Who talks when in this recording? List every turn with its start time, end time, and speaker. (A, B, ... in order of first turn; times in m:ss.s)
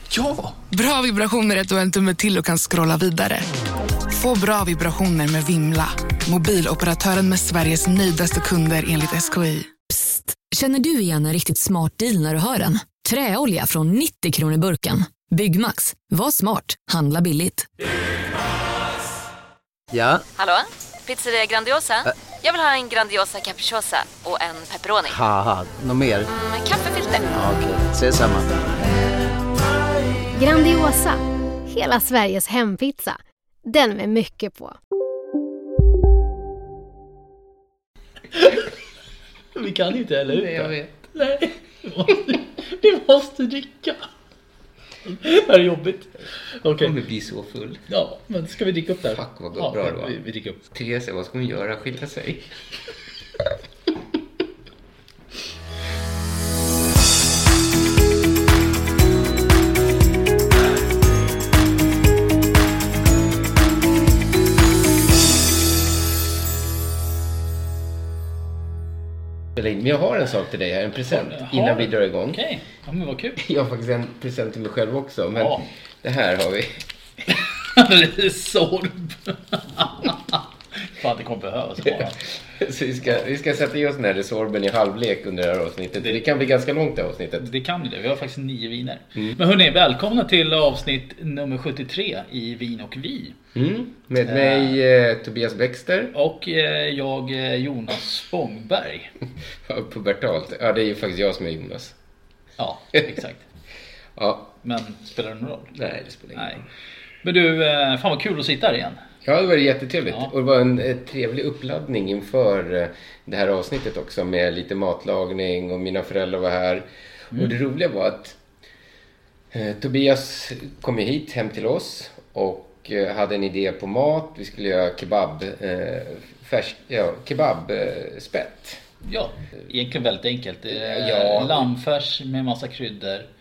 0:00.3-0:03.5 A
0:04.1-0:09.7 A
0:09.9-0:17.7 B
0:19.9-0:20.2 C
0:20.4-0:22.0 B
0:21.1-0:21.9 D
0:22.4-0:24.9 D
0:24.0-0:25.1 B
0:25.0-0:26.3 C
0:26.3-0:27.3 B
0:26.5-0:27.1 D
0:27.3-0:28.5 C
0:30.3-0:34.8 E
0:38.3-0:38.6 F
0:39.5-0:44.1 F
0:40.3-0:40.9 G
0:45.0-0:46.9 F
0:46.8-0:47.8 G
0:47.9-0:50.6 F
0:49.1-0:50.2 G
0:50.7-0:52.5 G
1:09.6-1:12.4 G
1:11.0-1:13.4 F
1:13.4-1:16.8 G
1:15.4-1:15.7 F
1:17.3-1:22.2 F
1:21.8-1:27.5 G
1:27.4-1:33.4 F
1:33.5-1:36.1 G
1:34.2-1:34.8 F
1:36.1-1:39.1 F
1:39.6-1:41.9 G
1:42.6-1:43.4 F
1:44.2-1:44.5 G
1:44.6-1:45.7 F
1:45.7-1:46.6 G
1:46.3-1:46.6 F
1:47.2-1:49.0 F
1:49.2-1:58.4 G
1:59.5-2:08.8 G
2:09.0-2:13.3 F
2:10.7-2:11.7 G